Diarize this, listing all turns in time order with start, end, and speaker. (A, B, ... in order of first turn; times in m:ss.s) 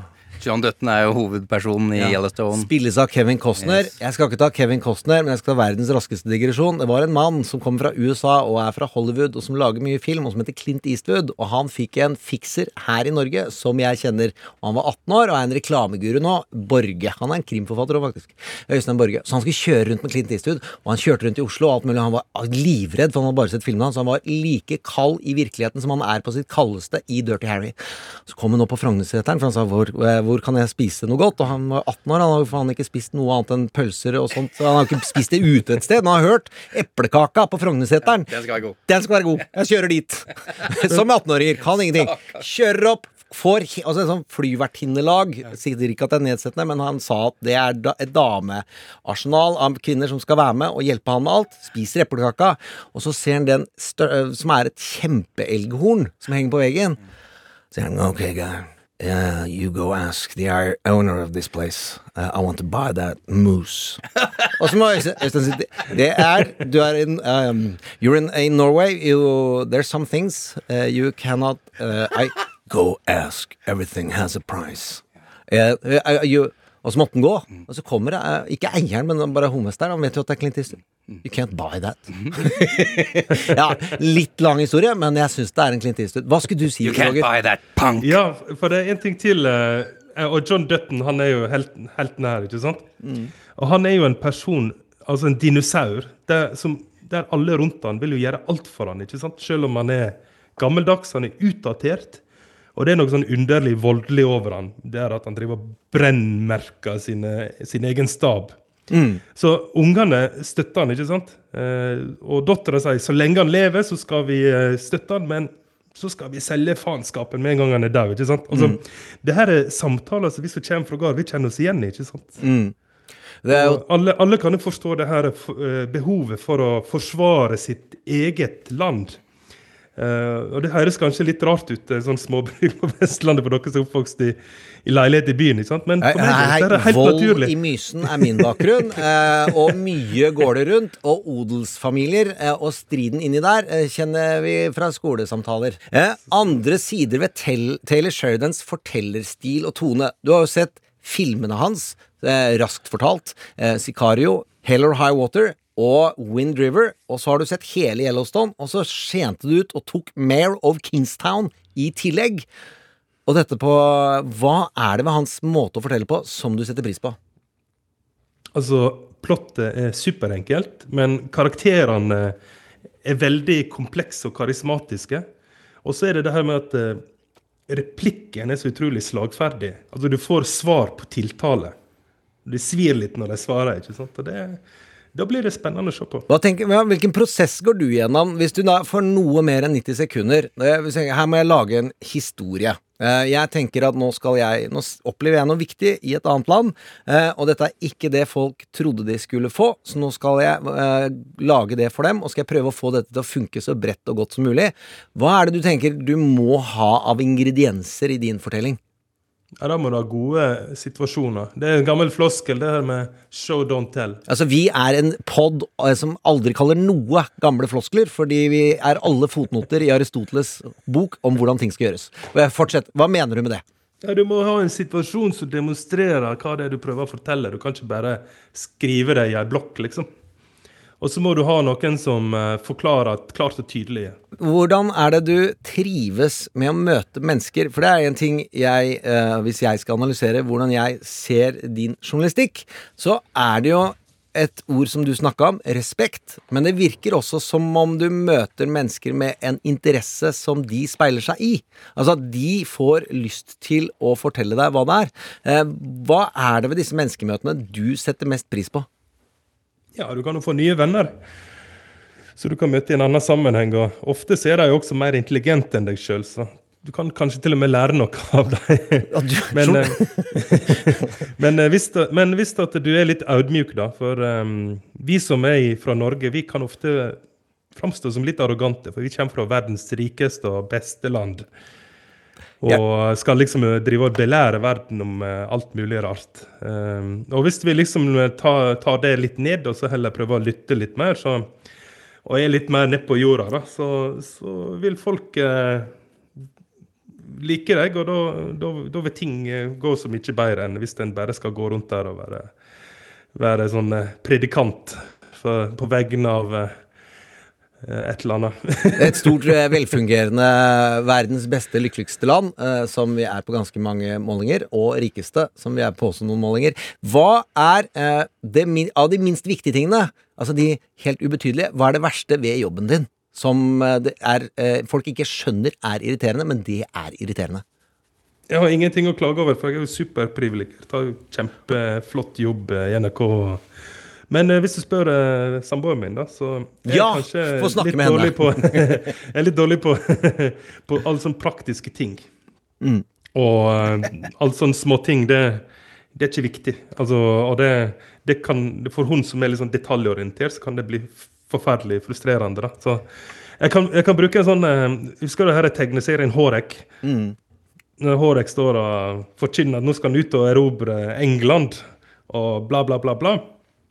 0:00.4-0:02.7 A
0:02.0-0:57.0 B
0:03.6-0:03.9 A
0:38.3-0:38.8 A
0:57.7-1:27.3 B
1:26.8-1:28.2 A
1:28.0-1:32.8 C
1:33.0-1:33.3 B
1:33.6-1:42.2 C
1:42.8-1:48.6 C
1:48.9-1:49.2 B
1:49.4-2:02.4 C
1:58.5-1:58.8 B
2:02.4-2:02.8 B
2:03.4-2:03.8 B
2:03.5-2:09.2 C
2:10.0-2:18.6 C
2:16.0-2:42.5 B
2:43.3-2:47.2 B
2:48.6-2:52.4 C
2:53.0-2:55.2 C
2:55.8-2:57.0 C
2:57.7-3:01.8 C
3:02.5-3:04.6 C
3:05.2-3:06.3 C
3:06.3-3:28.8 B
3:29.6-3:34.2 C
3:34.3-3:43.6 B
3:44.0-3:50.1 C
3:51.0-3:54.2 C
3:54.4-4:18.9 B
4:20.0-4:21.1 C
4:22.4-4:37.2 C
4:29.1-4:30.9 B
4:37.8-4:41.5 C
4:42.6-4:51.5 C
4:52.2-4:55.9 C
4:57.2-5:02.5 C
5:03.4-5:06.7 C
5:07.8-5:09.6 C
5:09.0-5:27.6 B
5:28.5-5:33.6 C
5:34.3-5:42.2 C
5:36.9-5:39.0 B
5:43.4-5:45.6 C
5:46.2-5:53.1 C
5:53.6-5:56.9 C
5:57.0-5:57.4 B
5:58.0-6:03.4 C